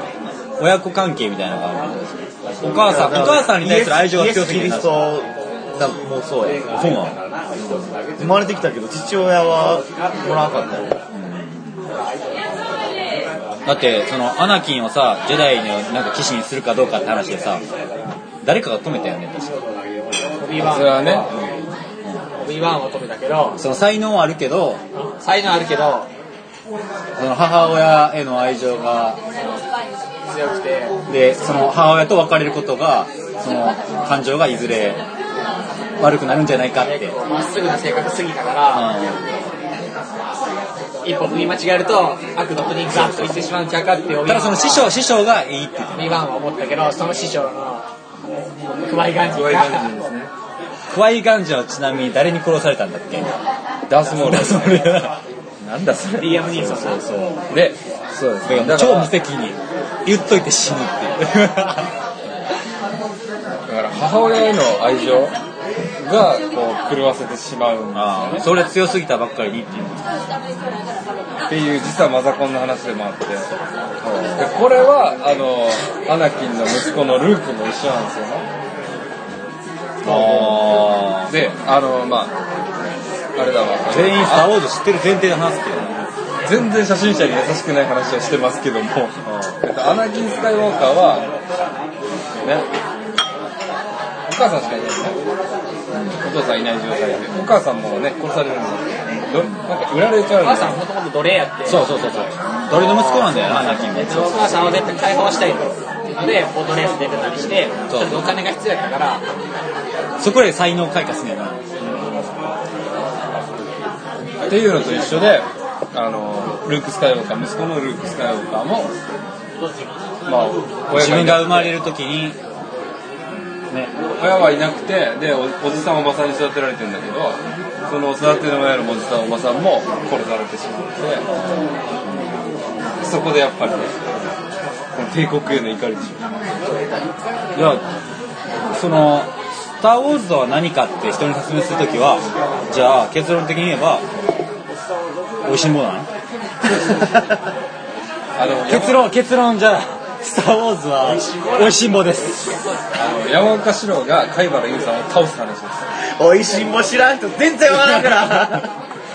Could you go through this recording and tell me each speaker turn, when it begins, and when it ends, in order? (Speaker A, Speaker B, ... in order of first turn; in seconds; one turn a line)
Speaker A: 0.6-5.0
Speaker B: 2.8-6.7
Speaker A: 6.7-7.2
Speaker B: 7.6-10.9
Speaker A: 11.1-11.8
Speaker A: 13.7-17.6
Speaker A: 18.4-19.6
Speaker C: 20.4-21.3
Speaker D: 20.6-21.4
Speaker C: 22.4-23.6
Speaker A: 23.6-24.8
Speaker C: 24.9-26.1
Speaker A: 27.2-29.2
Speaker C: 30.3-31.0
Speaker A: 31.1-35.0
Speaker A: 36.0-37.2
Speaker C: 36.7-38.9
Speaker A: 38.7-39.3
Speaker C: 41.0-44.9
Speaker A: 42.9-43.4
Speaker A: 44.2-46.2
Speaker C: 46.0-47.9
Speaker C: 48.8-49.9
Speaker D: 49.3-50.3
Speaker A: 50.9-53.3
Speaker D: 53.9-56.7
Speaker A: 54.1-55.1
Speaker C: 56.2-57.0
Speaker A: 56.7-57.4
Speaker D: 57.5-59.1
Speaker A: 58.5-61.9
Speaker D: 63.7-65.3
Speaker D: 66.0-68.5
Speaker A: 67.9-70.1
Speaker D: 71.5-73.5
Speaker D: 74.1-78.5
Speaker A: 80.0-81.3
Speaker D: 80.0-82.3
Speaker D: 83.4-84.5
Speaker A: 83.9-86.0
Speaker D: 86.4-91.3
Speaker A: 89.2-89.6
Speaker D: 92.4-92.7
Speaker D: 94.3-95.2
Speaker A: 95.9-96.2
Speaker D: 96.2-100.8
Speaker C: 100.4-102.0
Speaker A: 101.7-104.5
Speaker C: 102.7-109.2
Speaker A: 107.9-108.3
Speaker A: 110.2-111.6
Speaker D: 111.8-112.2
Speaker D: 114.5-118.9
Speaker D: 120.2-121.8
Speaker A: 120.9-122.4
Speaker D: 124.2-131.3
Speaker D: 133.0-134.0
Speaker D: 134.9-136.2
Speaker D: 137.6-137.8
Speaker A: 138.7-144.1
Speaker A: 145.4-146.1
Speaker B: 146.8-147.3
Speaker D: 148.4-149.1
Speaker A: 148.7-152.4
Speaker D: 152.9-155.8
Speaker B: 156.2-158.7